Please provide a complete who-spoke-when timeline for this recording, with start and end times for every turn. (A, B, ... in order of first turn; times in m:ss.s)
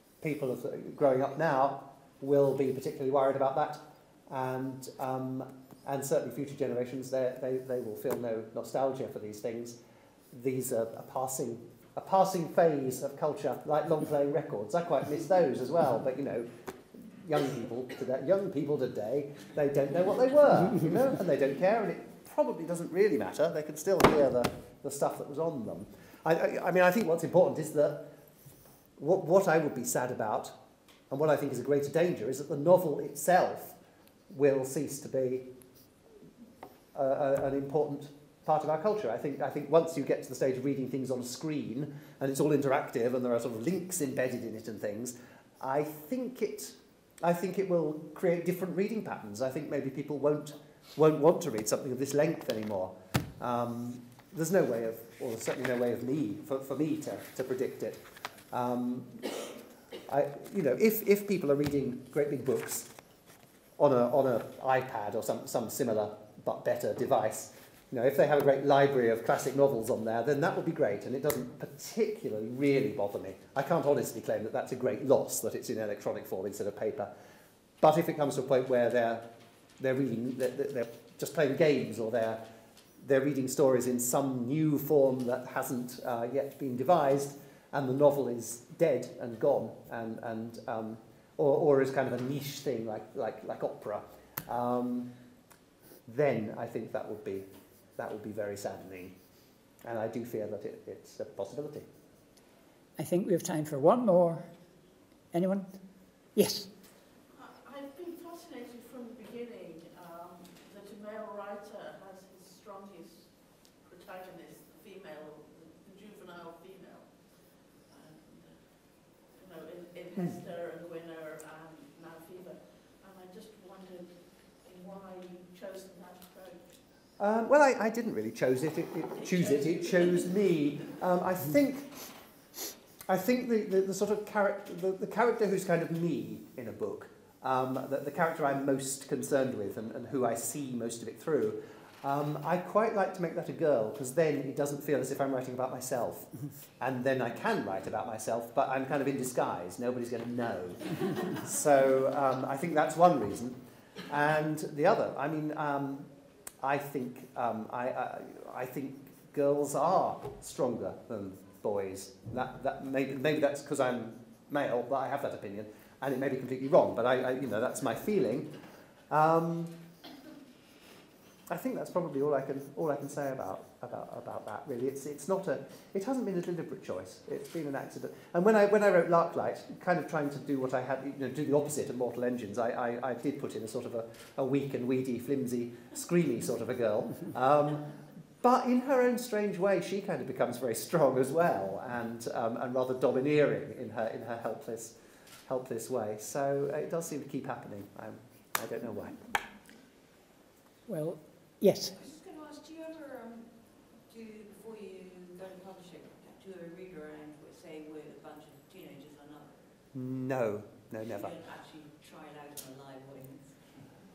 0:00.2-0:09.8 A
0:10.3-0:28.1 A
0:29.0-0:30.6 A
0:31.1-0:33.8 A
0:34.3-0:35.5 A
0:36.9-0:59.5 A
1:00.1-1:02.9 A
1:03.8-1:17.1 A
1:17.8-1:19.3 A
1:19.8-1:22.4 A
1:23.0-1:35.1 A
1:36.0-1:39.1 A
1:39.8-1:41.9 A
1:43.0-1:44.5 B
1:45.3-1:45.8 B
1:46.3-1:46.7 B
1:47.3-2:06.8 C
2:07.2-2:12.1 A
2:09.2-2:10.2 C
2:13.1-2:36.1 A
2:36.6-2:48.5 A
2:49.1-2:49.8 A
2:51.5-3:19.3 A
3:20.9-3:22.0 B
3:21.9-3:29.7 D
3:29.9-3:31.3 A
3:31.0-3:33.6 D